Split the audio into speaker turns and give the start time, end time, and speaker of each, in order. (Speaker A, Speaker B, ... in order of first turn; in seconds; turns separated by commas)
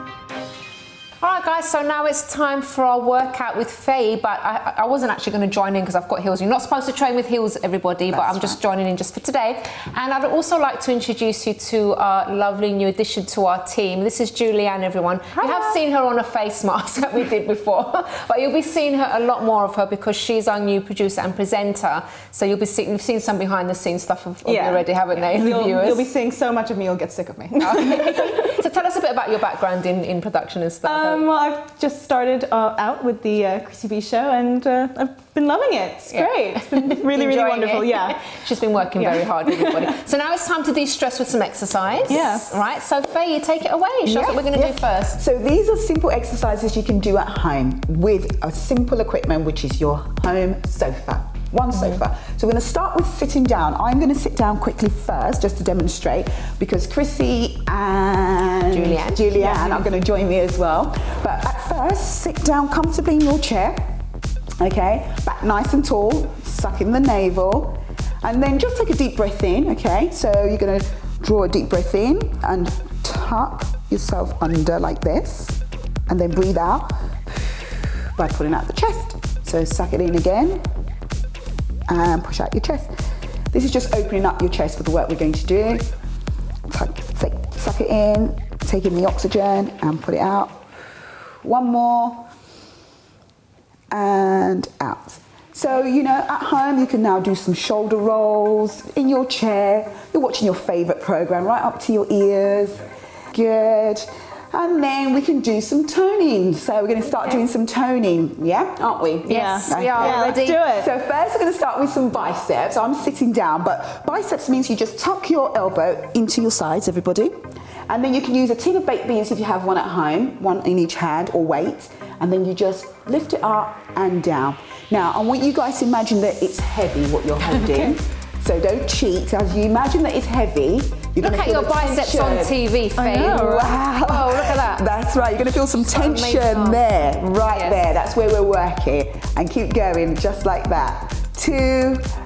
Speaker A: 1.2-26.1, Speaker B: 8.1-8.5, Speaker C: 15.3-15.8, Speaker C: 24.4-28.6, Speaker A: 27.6-31.3, Speaker C: 30.9-38.4, Speaker A: 36.1-45.2, Speaker C: 39.0-40.0, Speaker C: 42.1-42.6, Speaker B: 44.1-64.0, Speaker A: 51.7-52.0, Speaker A: 58.7-59.8, Speaker B: 64.6-77.0, Speaker B: 78.2-80.6, Speaker B: 81.9-85.9, Speaker B: 86.7-90.6, Speaker B: 91.4-92.3, Speaker B: 93.9-132.6, Speaker A: 109.2-110.6, Speaker C: 109.3-110.9, Speaker A: 131.2-134.9, Speaker C: 133.0-133.8, Speaker B: 133.2-142.1, Speaker A: 135.8-136.8, Speaker A: 137.5-137.8